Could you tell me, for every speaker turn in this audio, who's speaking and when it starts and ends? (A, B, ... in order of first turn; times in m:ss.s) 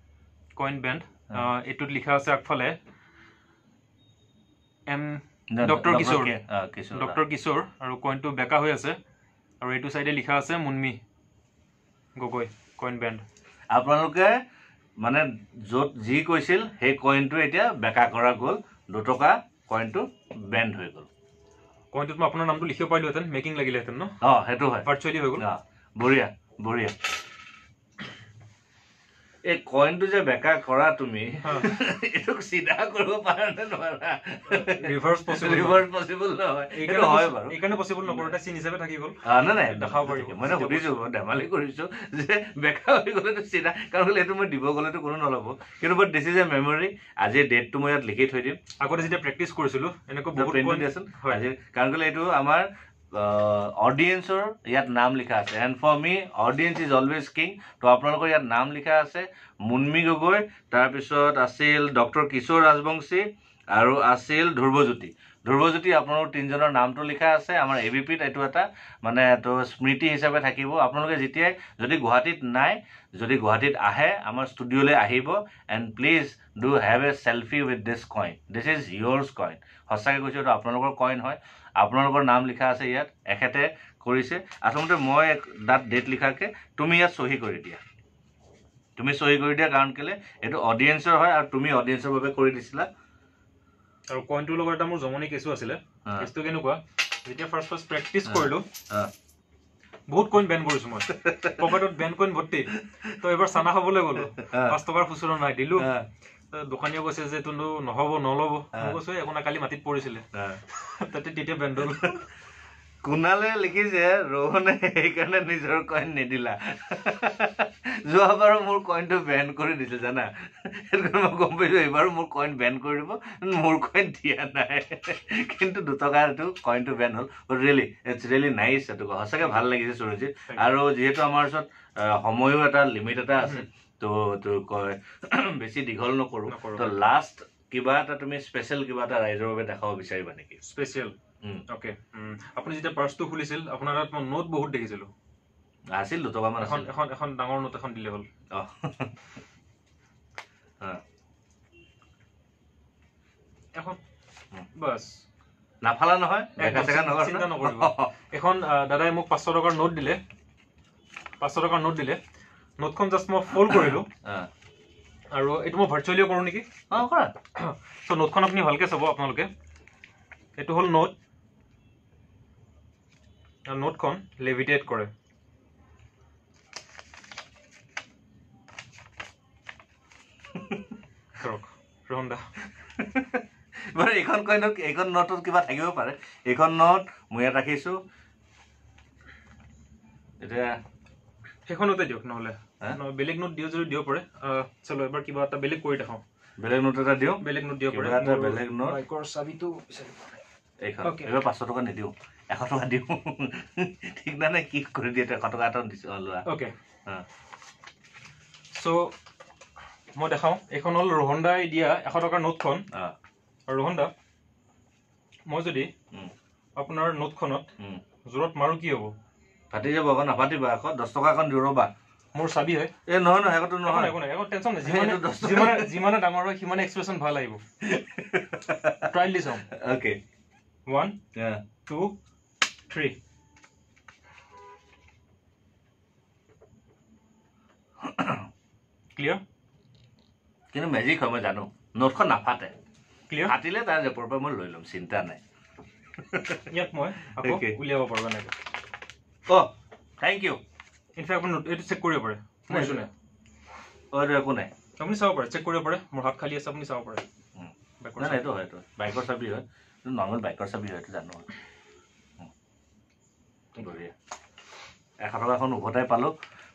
0:00.6-0:02.8 A
0:04.9-0:06.3 A
0:05.5-0:07.2 B
0:06.9-0:09.0 A
0:09.6-0:11.0 A
0:12.2-0:13.2 A
0:13.7-0:14.4 B
0:15.0-0:21.1 B
0:21.9-0:24.2 A
0:24.2-0:27.1 B
0:24.8-0:25.4 A
0:29.4-0:38.3 B
0:31.4-0:31.7 A
0:34.5-0:35.8 A
0:36.7-0:41.0 A
0:39.2-0:48.6 B
0:48.8-0:51.4 A
0:50.3-1:27.8 B
1:29.0-1:32.9 B
1:34.1-1:38.7 A
1:38.2-1:39.1 B
1:40.1-1:45.9 A
1:41.1-1:41.7 B
1:42.8-1:43.2 B
1:44.3-1:44.8 B
1:45.8-1:46.0 B
1:46.5-1:52.2 A
1:50.3-1:50.6 B
1:53.0-2:20.6 B
2:16.5-2:16.9 A
2:20.6-2:21.1 A
2:21.7-2:25.1 A
2:25.9-2:26.9 B
2:26.6-2:28.3 A
2:28.5-2:29.2 B
2:34.7-2:35.2 A
2:35.8-2:38.1 B
2:36.6-2:40.2 A
2:41.4-2:42.2 A
2:42.8-2:44.1 A
2:43.7-2:44.5 B
2:45.3-2:46.7 A
2:46.9-2:47.3 B
2:47.5-2:49.5 A
2:50.6-2:51.1 A
2:53.6-2:55.1 A
3:00.5-3:00.9 B
3:01.4-3:02.4 A
3:02.8-3:08.0 B
3:10.4-3:10.8 B
3:11.7-3:16.2 A
3:16.6-3:19.0 B
3:17.4-3:20.4 A
3:20.8-3:26.5 B
3:21.0-3:21.3 A
3:26.4-3:26.7 A
3:28.7-3:29.1 A
3:30.2-3:32.8 A
3:33.7-3:34.1 A
3:35.5-3:35.9 A
3:36.8-3:37.7 A
3:38.2-3:39.1 A
3:39.7-3:41.9 B
3:42.3-3:42.9 A
3:43.1-3:44.1 B
3:43.8-3:47.6 A
3:44.8-3:45.9 B
3:47.8-3:49.1 B
3:49.0-3:49.6 A
3:49.6-3:50.2 B
3:50.9-3:51.2 A
3:51.3-3:51.6 B
3:51.8-3:52.2 A
3:52.9-3:53.2 A
3:58.0-3:58.5 B
3:59.1-3:59.4 A
4:00.7-4:02.7 B
4:03.4-4:05.4 B
4:06.2-4:06.7 B
4:06.7-4:08.5 A
4:07.3-4:07.8 B
4:09.5-4:10.6 B
4:11.2-4:13.1 A
4:12.7-4:13.1 B
4:14.1-4:14.7 B
4:15.0-4:17.2 A
4:17.6-4:21.5 B
4:18.0-4:18.4 A
4:23.8-4:24.1 B
4:25.2-4:26.3 B